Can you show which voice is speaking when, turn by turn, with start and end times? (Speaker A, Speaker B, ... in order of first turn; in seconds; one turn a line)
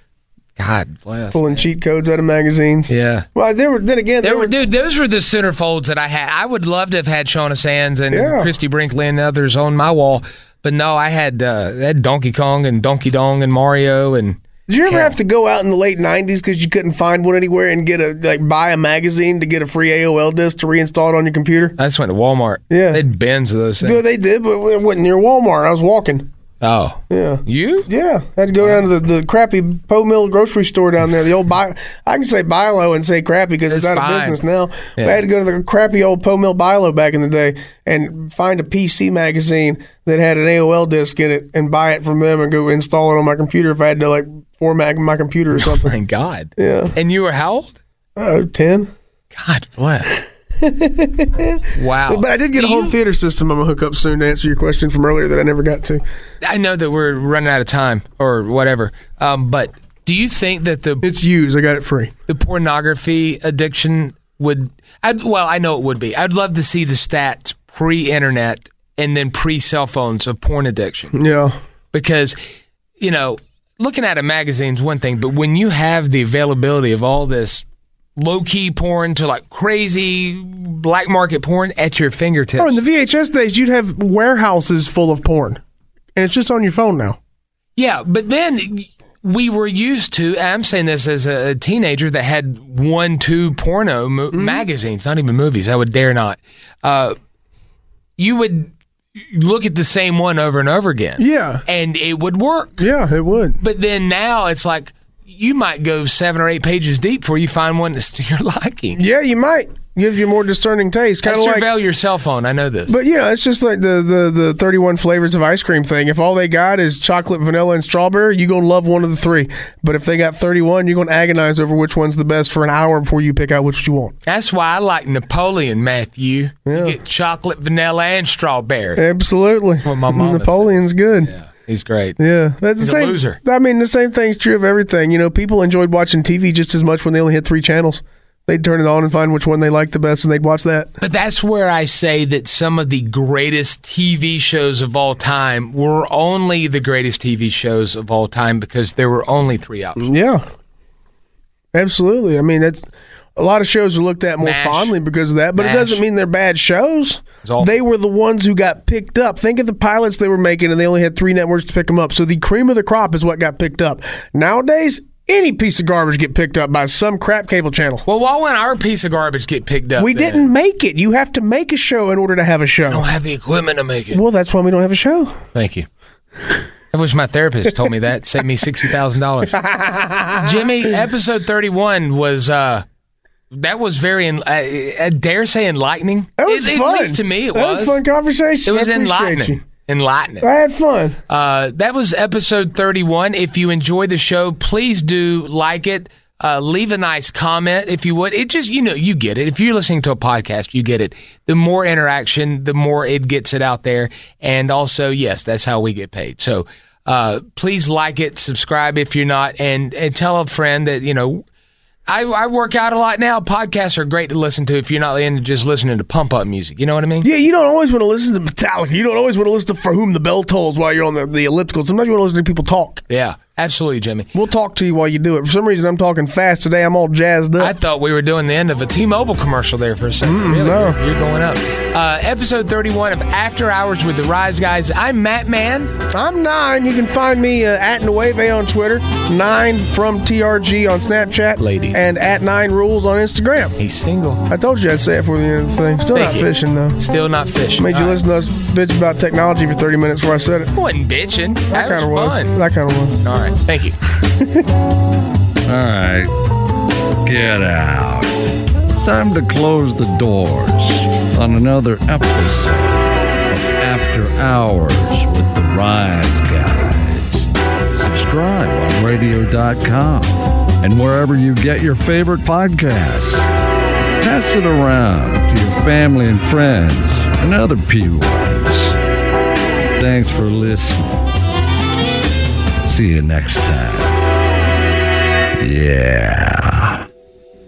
Speaker A: 0.6-1.7
Speaker B: 1.3-4.6
Speaker A: 2.9-3.3
Speaker A: 4.2-15.2
Speaker B: 8.1-8.5
Speaker B: 14.7-21.8
Speaker A: 21.8-24.0
Speaker B: 22.7-23.0
Speaker B: 23.8-26.3
Speaker A: 26.6-27.9
Speaker B: 27.1-46.0
Speaker A: 33.7-34.4
Speaker A: 35.0-35.2
Speaker A: 45.5-47.8
Speaker B: 46.6-46.9
Speaker B: 48.1-48.9
Speaker A: 49.3-50.2
Speaker B: 50.6-56.0
Speaker A: 51.7-53.0
Speaker A: 56.4-61.1
Speaker B: 61.0-62.1
Speaker A: 62.3-71.1
Speaker B: 71.1-71.5
Speaker A: 71.9-72.4
Speaker A: 73.0-77.6
Speaker A: 78.2-82.8
Speaker B: 82.6-85.6
Speaker B: 86.1-87.2
Speaker A: 87.8-97.1
Speaker B: 94.3-94.6
Speaker A: 98.2-102.8
Speaker B: 101.2-101.6
Speaker B: 102.8-103.6
Speaker A: 103.6-109.0
Speaker B: 109.0-111.7
Speaker A: 111.2-113.0
Speaker B: 112.9-124.1
Speaker A: 124.2-129.0
Speaker B: 126.7-127.0
Speaker B: 129.0-131.3
Speaker A: 129.8-132.2
Speaker B: 132.2-141.0
Speaker A: 132.8-133.4
Speaker A: 141.0-150.1
Speaker B: 150.0-150.4
Speaker B: 151.7-168.0
Speaker A: 154.4-154.9
Speaker A: 155.6-156.0
Speaker A: 157.4-157.8
Speaker A: 168.1-170.5
Speaker B: 170.0-173.0
Speaker A: 172.9-174.2
Speaker B: 174.1-175.4
Speaker A: 175.5-175.9
Speaker A: 176.9-179.6
Speaker B: 179.5-180.7
Speaker A: 180.4-182.8
Speaker A: 183.5-188.0
Speaker B: 186.4-189.6
Speaker A: 188.7-190.5
Speaker B: 190.4-191.2
Speaker A: 191.3-211.4
Speaker A: 212.1-217.3
Speaker B: 217.2-223.0
Speaker A: 223.1-224.3
Speaker B: 224.3-227.7
Speaker A: 227.6-235.9
Speaker B: 230.2-231.0
Speaker B: 236.1-243.8
Speaker A: 241.6-242.1
Speaker A: 243.8-244.4
Speaker B: 244.5-247.0
Speaker A: 246.1-248.2
Speaker B: 247.8-250.7
Speaker A: 250.7-252.6
Speaker B: 251.7-253.2
Speaker A: 253.2-253.9
Speaker B: 254.3-254.7
Speaker C: 255.7-256.4
Speaker C: 257.2-258.4
Speaker C: 259.0-273.5
Speaker C: 274.2-278.9
Speaker C: 280.0-281.2
Speaker C: 282.8-284.1
Speaker C: 285.6-287.0